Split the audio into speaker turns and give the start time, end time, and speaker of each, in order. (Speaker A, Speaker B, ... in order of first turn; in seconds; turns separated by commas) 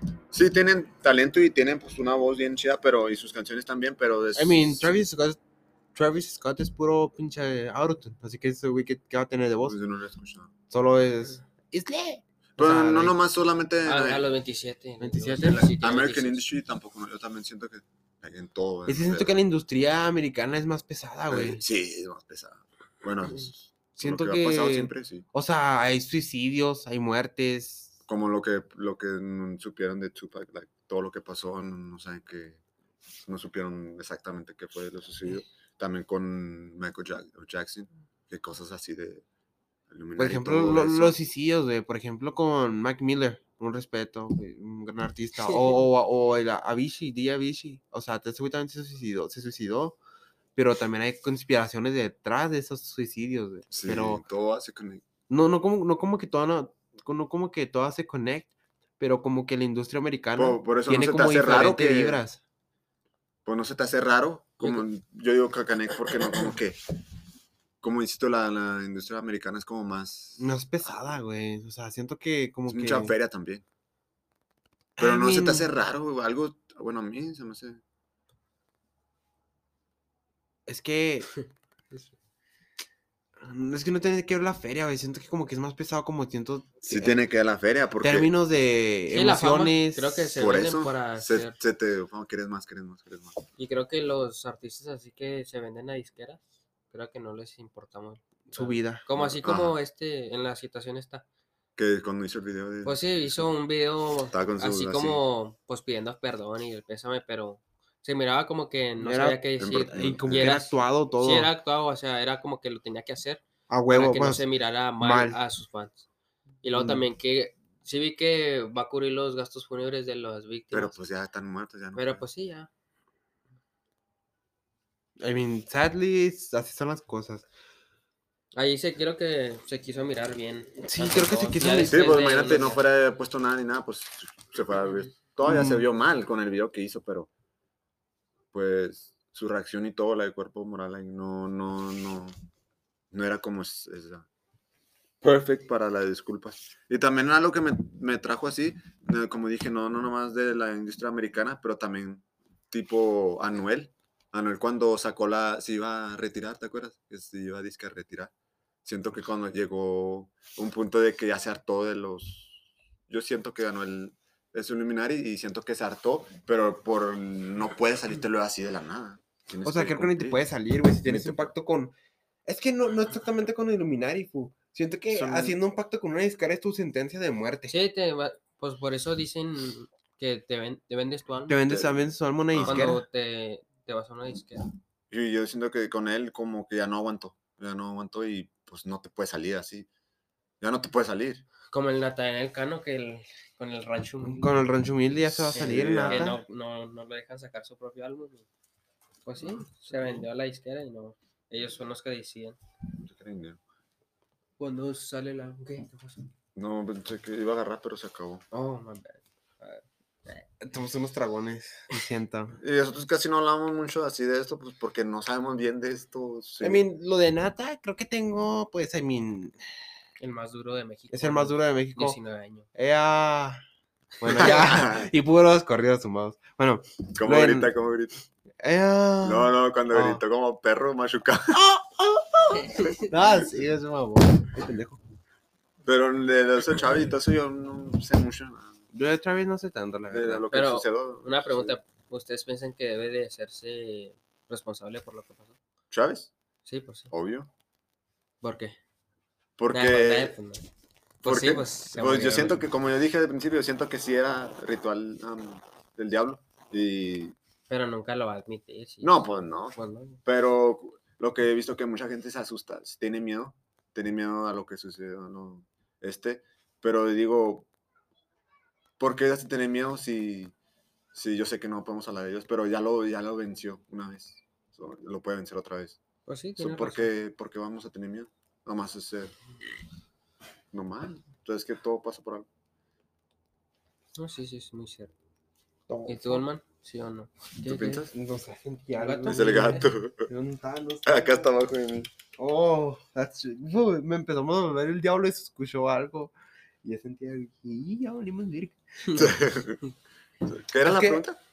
Speaker A: 0.3-5.0, Speaker B: 4.3-5.4, Speaker B: 6.0-9.8, Speaker A: 9.7-10.5, Speaker B: 10.7-13.2, Speaker A: 12.6-14.3, Speaker C: 13.8-16.4, Speaker B: 15.0-15.7, Speaker A: 15.5-19.4, Speaker B: 18.9-21.6, Speaker A: 21.3-25.2, Speaker B: 24.0-27.9, Speaker A: 28.1-32.6, Speaker A: 33.3-39.2, Speaker A: 39.9-41.2, Speaker B: 40.2-50.0, Speaker B: 50.6-54.2, Speaker A: 53.7-55.0, Speaker B: 55.3-62.4, Speaker A: 60.4-62.2, Speaker A: 63.5-66.8, Speaker A: 67.8-70.5, Speaker B: 70.4-73.2, Speaker A: 72.7-73.6, Speaker B: 75.0-75.7, Speaker A: 75.0-77.8, Speaker B: 80.7-81.3, Speaker B: 83.4-87.2, Speaker A: 86.9-88.3, Speaker B: 88.0-90.3, Speaker C: 89.1-91.6, Speaker A: 90.3-93.4, Speaker C: 93.6-96.4, Speaker C: 96.9-101.2, Speaker B: 98.5-99.0, Speaker A: 99.1-99.8, Speaker A: 101.8-103.5, Speaker C: 102.8-116.1, Speaker A: 104.3-105.2, Speaker B: 109.0-109.4, Speaker A: 109.6-110.5, Speaker B: 109.9-111.5, Speaker B: 113.7-114.5, Speaker B: 115.0-115.4, Speaker C: 116.6-121.0, Speaker B: 116.7-117.0, Speaker A: 120.7-122.2, Speaker C: 122.0-122.7, Speaker B: 125.2-127.5, Speaker C: 128.5-132.8, Speaker B: 130.8-132.0, Speaker A: 131.9-137.3, Speaker B: 135.4-135.9, Speaker A: 138.5-142.4, Speaker A: 143.1-144.3, Speaker A: 145.2-158.3, Speaker A: 158.8-170.4, Speaker B: 169.7-171.9, Speaker A: 171.0-171.5, Speaker B: 172.5-177.7, Speaker A: 175.1-175.6, Speaker C: 177.7-181.6, Speaker B: 181.5-183.0, Speaker A: 182.5-182.9, Speaker C: 182.6-184.7, Speaker A: 185.1-189.9, Speaker A: 190.6-191.4, Speaker C: 191.7-194.6, Speaker B: 194.2-196.4, Speaker A: 195.2-196.3, Speaker C: 195.5-198.5, Speaker C: 199.2-202.6, Speaker A: 203.0-203.6, Speaker C: 204.6-206.3, Speaker A: 206.6-208.4, Speaker C: 208.5-210.4, Speaker B: 210.6-212.6, Speaker A: 212.6-216.8, Speaker B: 216.6-219.6, Speaker C: 220.2-222.7, Speaker B: 221.1-222.2, Speaker B: 222.7-223.6, Speaker B: 224.2-227.7, Speaker A: 224.3-225.1, Speaker A: 227.2-228.2, Speaker B: 228.6-230.2, Speaker A: 229.2-231.8, Speaker B: 232.0-232.4, Speaker C: 232.5-233.1, Speaker B: 233.1-235.0, Speaker A: 233.3-233.6, Speaker A: 235.8-238.8, Speaker B: 238.9-240.4, Speaker A: 240.1-241.8, Speaker C: 240.5-245.6, Speaker A: 245.9-246.3, Speaker C: 246.7-247.1, Speaker A: 247.1-247.5, Speaker C: 248.4-248.8, Speaker A: 249.6-250.4, Speaker C: 249.7-250.7, Speaker A: 251.2-257.4, Speaker C: 251.2-252.6, Speaker C: 257.7-260.2, Speaker A: 259.0-267.7, Speaker A: 269.0-270.5, Speaker A: 271.1-276.0, Speaker C: 276.3-277.1, Speaker A: 276.6-279.4, Speaker A: 280.7-282.5, Speaker C: 284.1-285.1, Speaker B: 285.9-286.5, Speaker C: 286.1-288.1, Speaker A: 287.6-288.1, Speaker B: 288.1-291.5, Speaker C: 288.9-289.9, Speaker A: 289.3-290.3, Speaker A: 291.1-292.1, Speaker B: 292.4-299.4, Speaker C: 299.0-299.3, Speaker A: 299.1-299.8, Speaker A: 300.4-301.4, Speaker B: 300.8-301.2